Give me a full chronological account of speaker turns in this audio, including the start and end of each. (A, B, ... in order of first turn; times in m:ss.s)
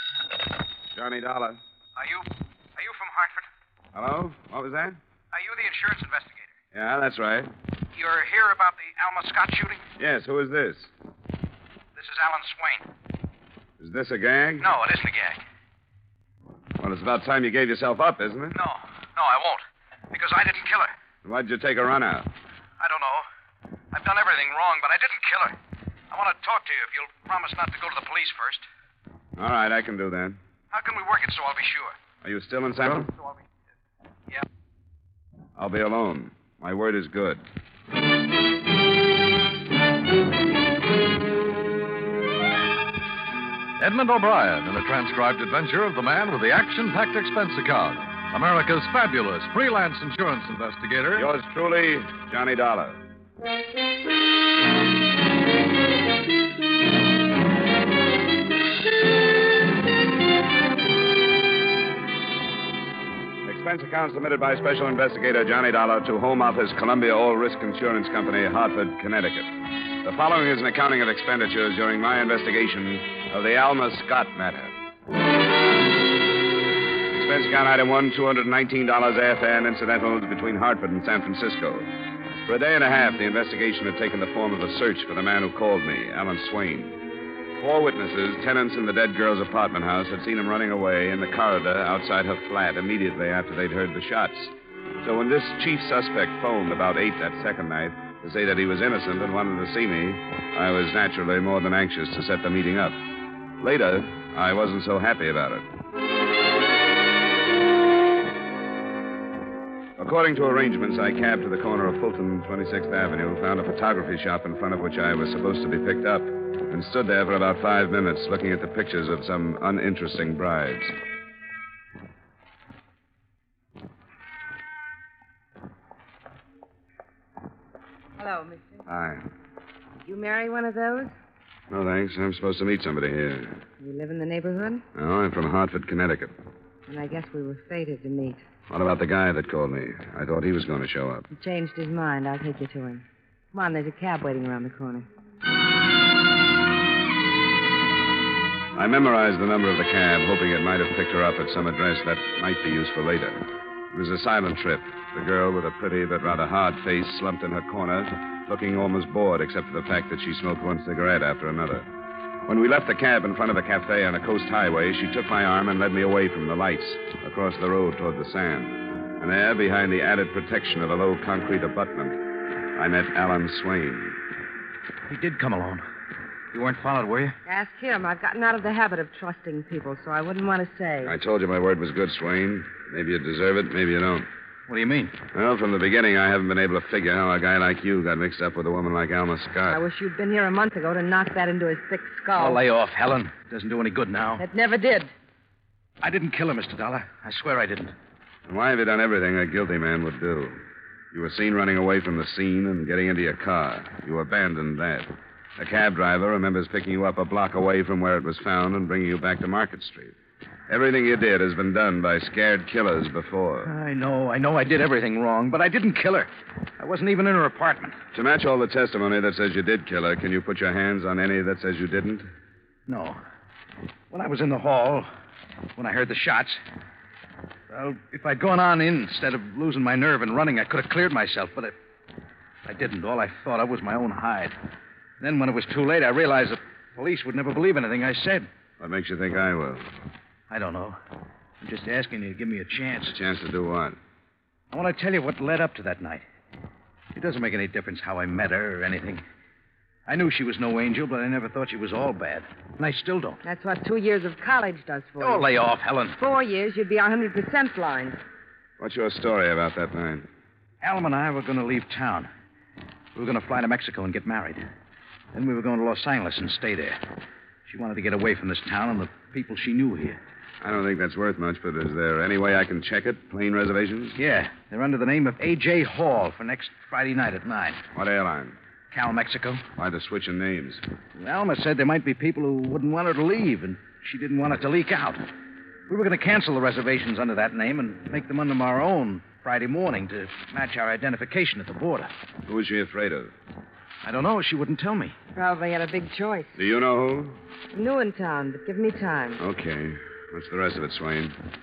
0:00.9-0:01.6 A
0:02.0-0:03.4 B
0:03.9-0:05.0 A
0:05.3-0:06.5 B
0:06.7-0:07.5 A
0:07.9-0:09.8 B
0:10.0-0:10.9 A
0:12.0-0:12.8 B
0:13.8-0:14.7 A
0:14.6-0:15.4 B
0:16.8-0:18.6 A
0:18.5-0:19.6 B
0:20.1-0:20.9 B
0:21.2-0:22.3 A
0:22.8-0:23.2 B
0:23.9-0:25.5 B
0:26.1-0:28.6 B
0:29.4-0:30.4 A
0:30.7-0:31.9 B
0:32.2-0:33.1 A
0:35.6-0:37.4 A
0:43.8-0:51.3 C
0:51.1-0:53.0 A
1:03.4-1:09.5 A
1:10.0-1:14.7 A
1:17.1-1:21.9 A
1:22.4-1:27.0 A
1:27.6-1:43.0 A
1:43.6-1:45.7 A
1:50.0-2:00.9 A
2:08.2-2:08.8 D
2:08.9-2:09.2 A
2:10.0-2:11.1 D
2:11.7-2:13.6 A
2:13.8-2:14.8 D
2:14.9-2:16.3 A
2:16.9-2:18.4 D
2:18.7-2:21.2 A
2:21.3-2:25.0 D
2:28.7-2:41.8 A
2:42.4-2:52.2 A
2:52.8-2:54.2 A
2:55.1-2:55.8 E
2:56.5-2:57.4 E
2:57.4-3:01.1 D
3:01.0-3:04.3 A
3:04.7-3:05.2 E
3:05.3-3:09.8 A
3:09.7-3:12.6 D
3:12.4-3:14.4 E
3:14.4-3:15.1 D
3:16.0-3:17.9 E
3:18.5-3:20.6 A
3:21.1-3:30.1 A
3:30.7-3:33.7 A
3:33.6-3:38.0 E
3:38.1-3:42.3 A
3:42.9-3:43.2 E
3:44.1-3:45.1 E
3:45.8-3:46.6 E
3:47.7-3:51.7 E
3:52.6-3:54.5 E
3:55.2-3:58.5 E
3:58.8-3:59.8 A
4:00.5-4:01.0 E
4:01.6-4:03.1 E
4:03.1-4:04.0 A
4:04.7-4:06.2 E
4:07.1-4:09.2 E
4:10.0-4:13.4 E
4:13.4-4:15.4 D
4:15.2-4:16.2 E
4:16.2-4:18.2 D
4:18.8-4:20.3 A
4:20.8-4:22.3 E
4:23.1-4:24.6 E
4:25.3-4:27.0 E
4:27.6-4:30.2 E
4:30.6-4:34.2 A
4:34.2-4:37.8 E
4:37.9-4:38.6 A
4:38.9-4:39.7 E
4:39.8-4:40.8 A
4:41.2-4:45.2 E
4:45.9-4:52.1 E
4:52.4-4:53.3 A
4:54.0-4:55.1 E
4:55.3-4:56.6 D
4:56.6-4:57.4 A
4:57.7-4:59.4 D
4:59.4-5:01.4 A